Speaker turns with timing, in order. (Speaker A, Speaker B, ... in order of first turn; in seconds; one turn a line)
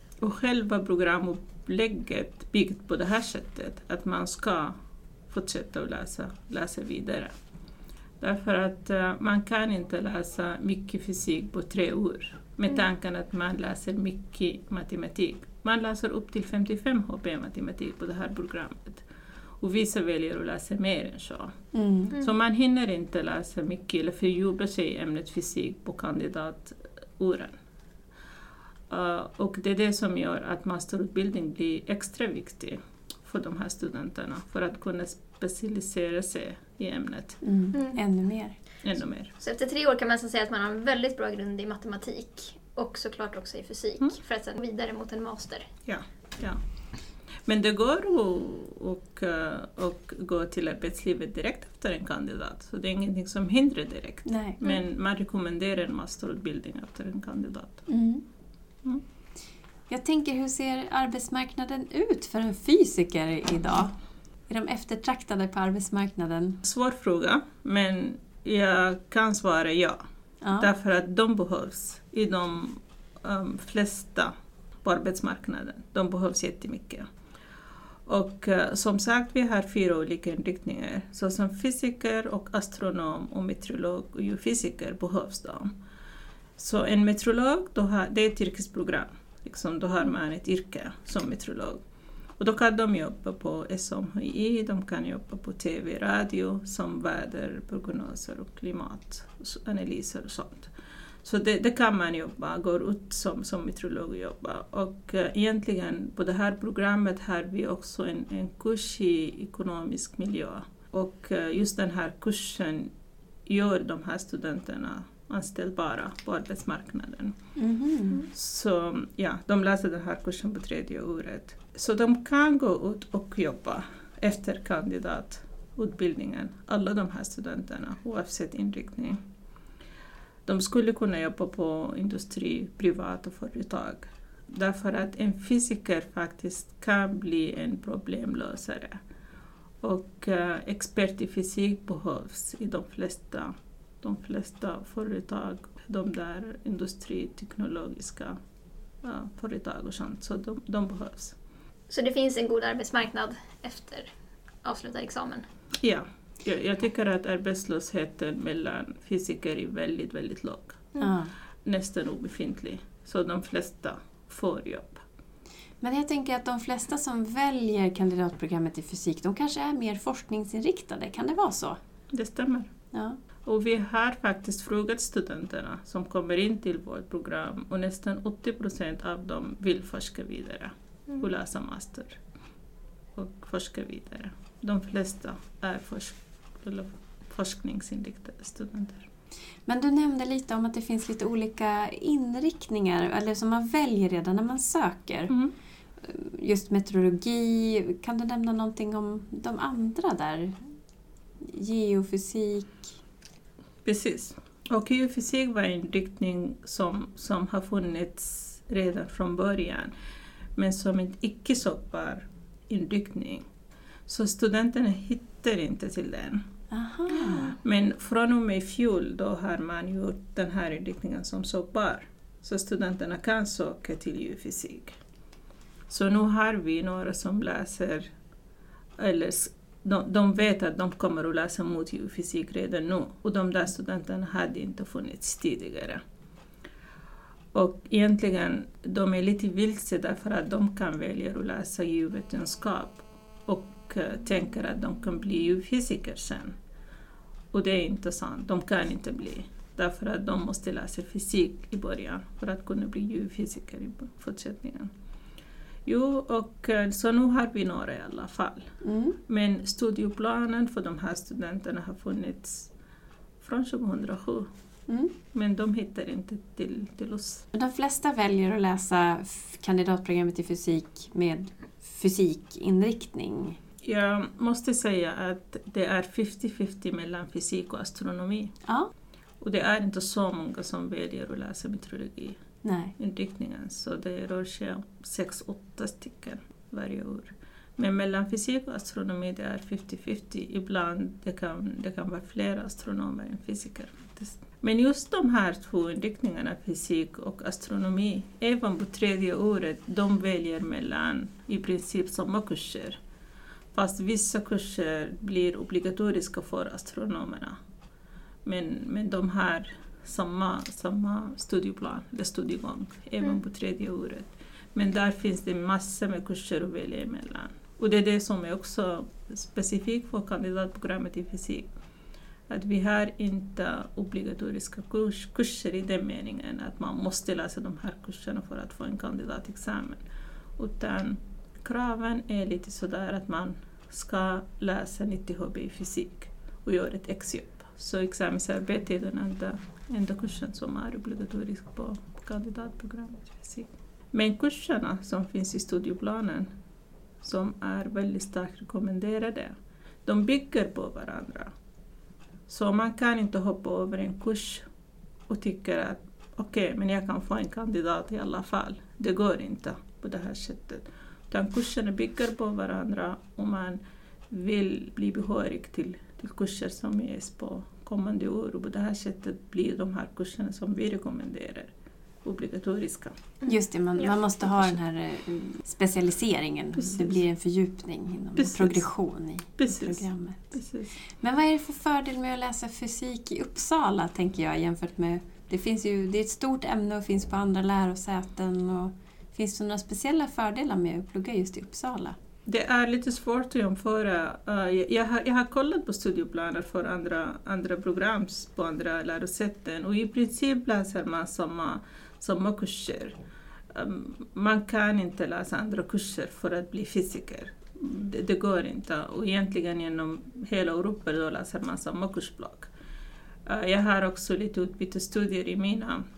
Speaker A: 0.2-4.8
Speaker A: 5.3-7.3
Speaker A: 8.2-19.1
Speaker A: 19.6-21.5
Speaker B: 21.7-22.1
Speaker A: 22.1-27.6
Speaker A: 28.9-37.4
Speaker B: 37.4-38.6
Speaker C: 37.7-38.0
Speaker A: 38.8-39.3
Speaker C: 39.4-45.7
Speaker A: 45.9-46.6
Speaker A: 47.5-57.8
Speaker B: 54.3-54.6
Speaker B: 57.9-58.2
Speaker B: 59.9-63.9
Speaker B: 64.5-66.6
Speaker A: 66.6-70.0
Speaker B: 70.4-70.7
Speaker A: 70.6-74.3
Speaker A: 74.8-77.1
Speaker A: 78.1-85.7
Speaker A: 86.6-91.8
Speaker A: 92.4-100.7
Speaker A: 101.2-112.9
Speaker A: 113.5-117.4
Speaker B: 117.6-118.2
Speaker A: 118.2-129.2
Speaker A: 130.5-139.0
Speaker A: 139.8-148.4
Speaker A: 149.0-151.4
Speaker C: 151.9-154.1
Speaker C: 154.6-155.4
Speaker A: 155.8-160.9
Speaker B: 161.0-161.3
Speaker A: 161.7-165.0
Speaker B: 165.8-171.8
Speaker A: 172.1-172.7
Speaker B: 172.9-173.2
Speaker A: 173.4-182.2
Speaker A: 183.2-189.1
Speaker B: 189.7-195.3
Speaker B: 196.0-200.6
Speaker B: 201.4-202.9
Speaker A: 203.8-209.9
Speaker A: 210.6-213.4
Speaker A: 214.1-216.4
Speaker B: 216.7-217.6
Speaker A: 217.1-225.0
Speaker A: 225.9-228.1
Speaker A: 229.0-236.0
Speaker A: 237.5-246.5
Speaker A: 247.5-254.9
Speaker A: 255.9-258.7
Speaker B: 258.8-259.2
Speaker A: 259.3-262.7
Speaker A: 263.4-264.5
Speaker B: 264.9-265.1
Speaker A: 265.3-267.4
Speaker B: 267.5-273.6
Speaker A: 273.8-278.5
Speaker A: 279.4-282.4
Speaker B: 282.6-282.9
Speaker A: 283.0-303.0
Speaker A: 303.7-307.6
Speaker A: 308.4-321.7
Speaker A: 322.5-330.0
Speaker A: 330.6-346.5
Speaker A: 347.2-351.5
Speaker A: 352.5-354.6
Speaker A: 355.3-363.8
Speaker A: 364.3-371.7
Speaker A: 372.2-373.1
Speaker C: 373.4-374.1
Speaker B: 373.5-380.5
Speaker A: 374.4-374.8
Speaker A: 376.8-377.2
Speaker A: 378.4-378.9
Speaker A: 379.6-381.0
Speaker B: 381.2-392.2
Speaker A: 392.5-403.2
Speaker A: 403.7-412.7
Speaker A: 413.5-416.0